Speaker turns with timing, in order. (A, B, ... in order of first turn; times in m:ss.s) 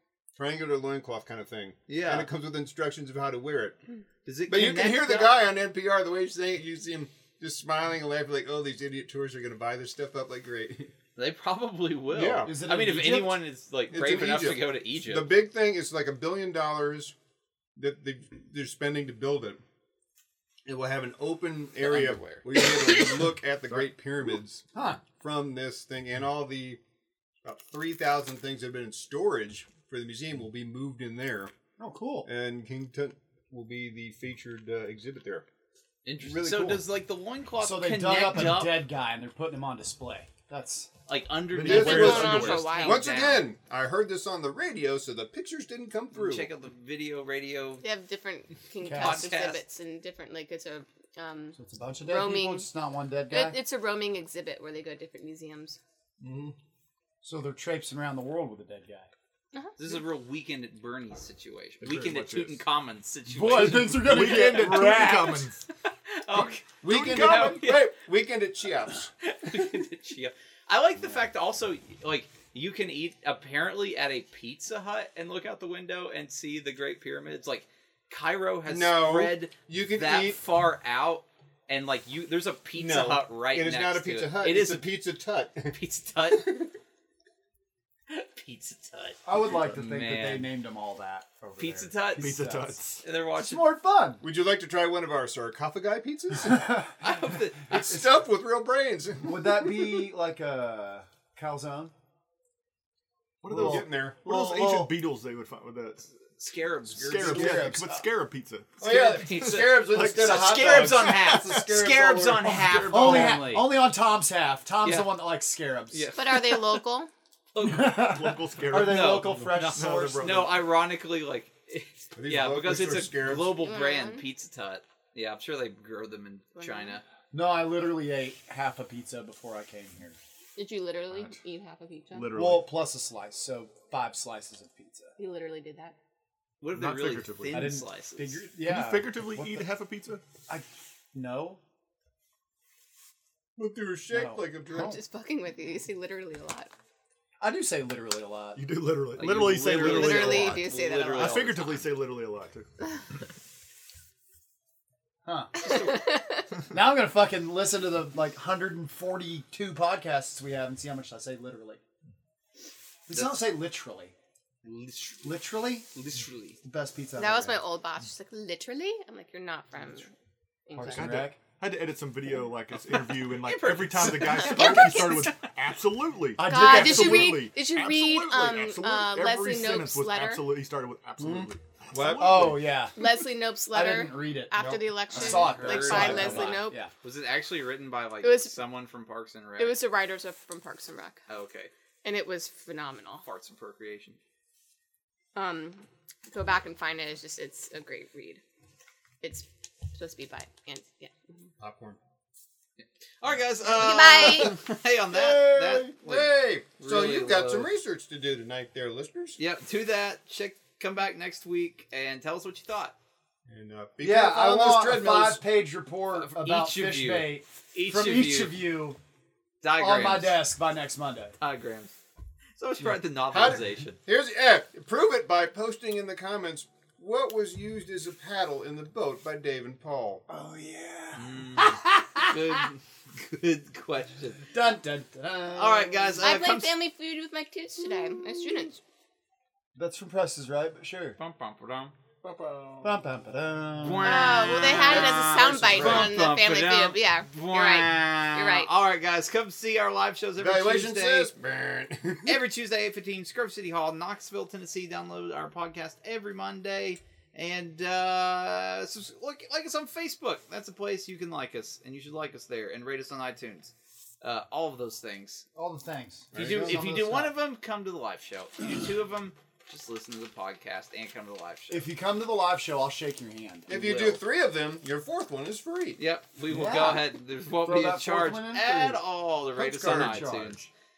0:00.3-0:03.8 A
0:01.9-0:02.3 B
0:04.2-0:05.4 B
0:04.5-0:10.9 A
0:11.2-0:15.3 B
0:12.1-0:12.5 A
0:12.4-0:13.4 C
0:13.9-0:17.1 A
0:17.8-0:19.6 A
0:20.6-0:26.8 A
0:21.9-0:22.2 B
0:24.7-0:25.0 C
0:27.4-0:31.5 A
0:31.8-0:32.3 C
0:32.2-0:35.4 A
0:36.0-0:38.8 B
0:36.2-0:36.8 A
0:37.6-0:40.9 C
0:41.1-0:43.5 B
0:41.5-0:42.7 D
0:41.6-0:46.5 A
0:41.7-0:43.2 E
0:46.1-0:47.8 B
0:47.8-0:52.7 E
0:48.8-0:49.3 C
0:48.9-0:49.6 B
0:51.6-0:53.6 C
0:53.3-0:55.8 E
0:56.2-0:56.6 A
0:57.2-0:59.1 C
0:59.8-1:04.2 B
1:01.8-1:02.6 D
1:03.3-1:05.5 C
1:03.5-1:05.6 D
1:06.1-1:08.0 B
1:06.4-1:07.7 D
1:06.8-1:09.8 A
1:09.2-1:24.9 B
1:18.6-1:20.4 A
1:22.7-1:26.7 A
1:25.7-1:26.7 B
1:28.1-1:30.5 B
1:29.2-1:32.8 C
1:31.6-1:32.4 B
1:32.2-1:33.0 D
1:33.0-1:33.7 B
1:33.3-1:34.2 C
1:34.2-1:36.8 A
1:36.4-1:37.0 C
1:37.0-1:38.1 B
1:37.7-1:39.9 A
1:39.2-1:41.9 C
1:43.4-1:46.1 D
1:43.5-1:44.2 A
1:43.5-1:45.0 C
1:46.4-1:47.6 B
1:46.9-1:47.8 A
1:47.0-1:51.6 D
1:47.2-1:47.9 C
1:48.8-1:52.6 A
1:48.8-1:53.7 B
1:52.4-1:53.5 D
1:52.6-1:56.1 C
1:54.8-1:55.1 B
1:55.9-1:56.7 B
1:56.2-1:57.1 E
1:57.5-1:58.0 B
1:57.6-2:00.4 C
1:57.8-2:00.6 D
1:58.7-2:07.0 B
2:02.1-2:03.5 A
2:03.6-2:04.2 E
2:06.6-2:07.0 E
2:07.3-2:10.2 C
2:10.6-2:12.3 E
2:12.1-2:12.7 D
2:12.3-2:15.1 C
2:15.2-2:16.0 E
2:16.6-2:18.4 B
2:16.7-2:17.7 D
2:17.5-2:19.7 C
2:18.5-2:20.2 D
2:20.5-2:21.6 C
2:23.6-2:25.0 A
2:24.1-2:25.0 C
2:24.8-2:26.7 E
2:27.4-2:28.6 C
2:28.6-2:32.7 D
2:29.2-2:31.6 B
2:29.6-2:31.8 E
2:35.2-2:35.9 C
2:35.6-2:36.5 E
2:36.7-2:41.8 C
2:43.1-2:44.1 C
2:43.1-2:43.4 B
2:44.6-2:45.4 B
2:45.2-2:45.9 C
2:45.9-2:46.6 B
2:46.6-2:47.6 C
2:47.2-2:50.1 E
2:50.6-2:51.3 E
2:50.7-2:51.4 C
2:50.8-3:02.6 D
2:53.0-2:55.2 B
2:54.3-2:55.3 E
2:54.5-2:55.0 C
2:56.3-2:57.5 C
2:56.4-3:00.4 E
3:01.9-3:02.6 A
3:02.1-3:03.0 C
3:03.0-3:06.8 E
3:03.7-3:04.6 C
3:04.6-3:04.8 A
3:05.1-3:06.9 C
3:05.1-3:09.8 B
3:05.4-3:06.5 A
3:08.2-3:08.6 E
3:09.6-3:11.2 E
3:11.3-3:11.7 B
3:12.0-3:13.2 E
3:13.2-3:14.2 B
3:15.3-3:18.4 E
3:19.2-3:21.5 E
3:21.6-3:22.0 A
3:22.8-3:27.7 B
3:23.6-3:24.6 E
3:25.1-3:29.4 A
3:29.4-3:32.9 B
3:33.5-3:35.4 A
3:34.0-3:39.0 C
3:36.1-3:38.7 B
3:39.6-3:40.4 B
3:39.7-3:41.3 C
3:41.4-3:41.9 B
3:42.6-3:44.0 B
3:43.3-3:50.2 A
3:50.3-3:52.6 C
3:51.2-3:54.5 B
3:54.5-3:56.3 C
3:55.5-3:56.7 B
3:56.2-3:58.8 E
3:59.7-4:01.2 C
4:01.2-4:01.9 B
4:02.2-4:03.0 A
4:02.8-4:04.2 C
4:03.8-4:11.3 B
4:04.0-4:08.7 E
4:04.7-4:06.1 A
4:10.4-4:12.4 A
4:12.2-4:25.4 B
4:25.5-4:27.4 C
4:26.3-4:26.8 A
4:26.3-4:31.8 B
4:31.7-4:34.1 C
4:33.7-4:36.0 A
4:33.8-4:34.2 B
4:36.0-4:40.6 B
4:36.5-4:39.0 C
4:39.5-4:40.4 A
4:39.7-4:40.7 C